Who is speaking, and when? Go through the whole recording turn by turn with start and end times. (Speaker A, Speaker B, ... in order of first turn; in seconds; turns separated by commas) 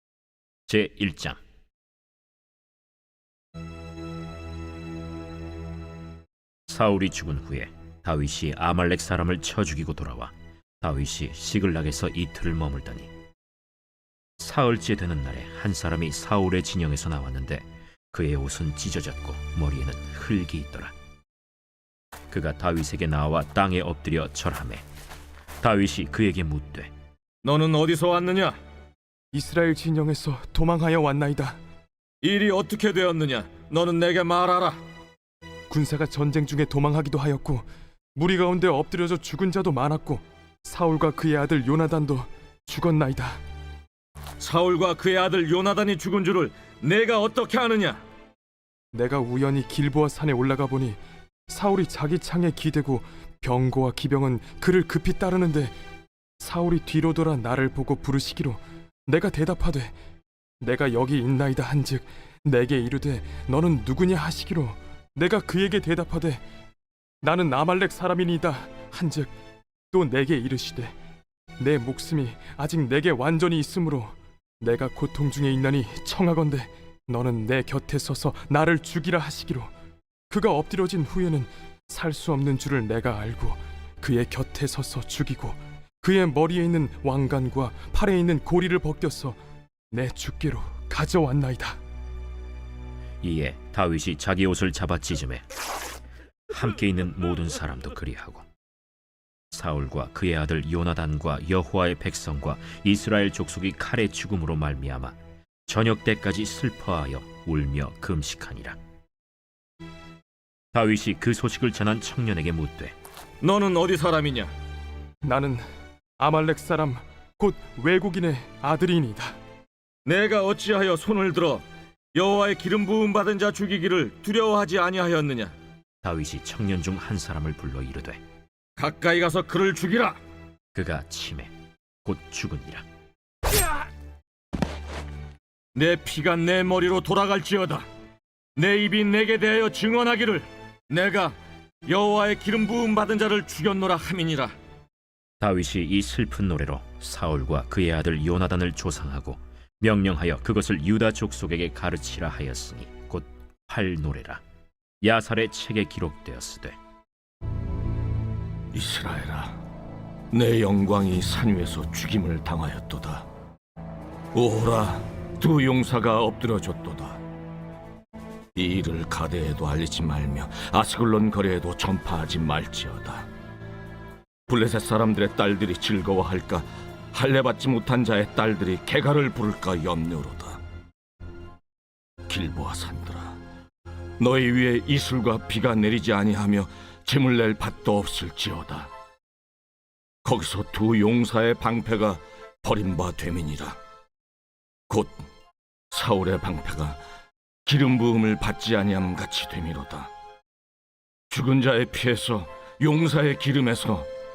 Speaker A: 0.7-1.4, Speaker A: 6.7-13.1, Speaker A: 14.4-20.9, Speaker A: 22.3-24.9, Speaker A: 25.6-26.9, Speaker B: 27.4-28.6, Speaker C: 29.3-31.6, Speaker B: 32.2-34.8, Speaker C: 35.7-43.4, Speaker B: 44.4-48.0, Speaker C: 48.9-55.8, Speaker C: 56.4-60.0, Speaker C: 60.6-66.4, Speaker C: 67.2-69.3, Speaker C: 69.9-71.0, Speaker C: 71.6-79.7, Speaker C: 80.3-89.4, Speaker C: 89.9-91.8, Speaker A: 93.2-95.4, Speaker A: 96.5-98.5, Speaker A: 99.5-105.2, Speaker A: 105.7-108.8, Speaker A: 110.7-113.0, Speaker B: 113.4-114.5, Speaker C: 115.2-115.7, Speaker C: 116.2-119.4, Speaker B: 120.0-125.5, Speaker A: 126.0-128.2, Speaker B: 128.8-130.2, Speaker A: 130.8-131.5, Speaker A: 132.1-132.8, Speaker B: 135.8-137.8, Speaker B: 138.6-144.5, Speaker A: 145.4-154.4, Speaker A: 155.0-156.8, Speaker D: 158.7-159.6, Speaker D: 160.3-163.3, Speaker D: 164.3-167.2, Speaker D: 168.6-173.3, Speaker D: 174.5-180.6, Speaker D: 182.3-183.4, Speaker D: 184.2-188.9, Speaker D: 190.2-193.8, Speaker D: 194.9-195.3, Speaker D: 195.9-197.0, Speaker D: 197.7-200.1, Speaker D: 201.3-204.1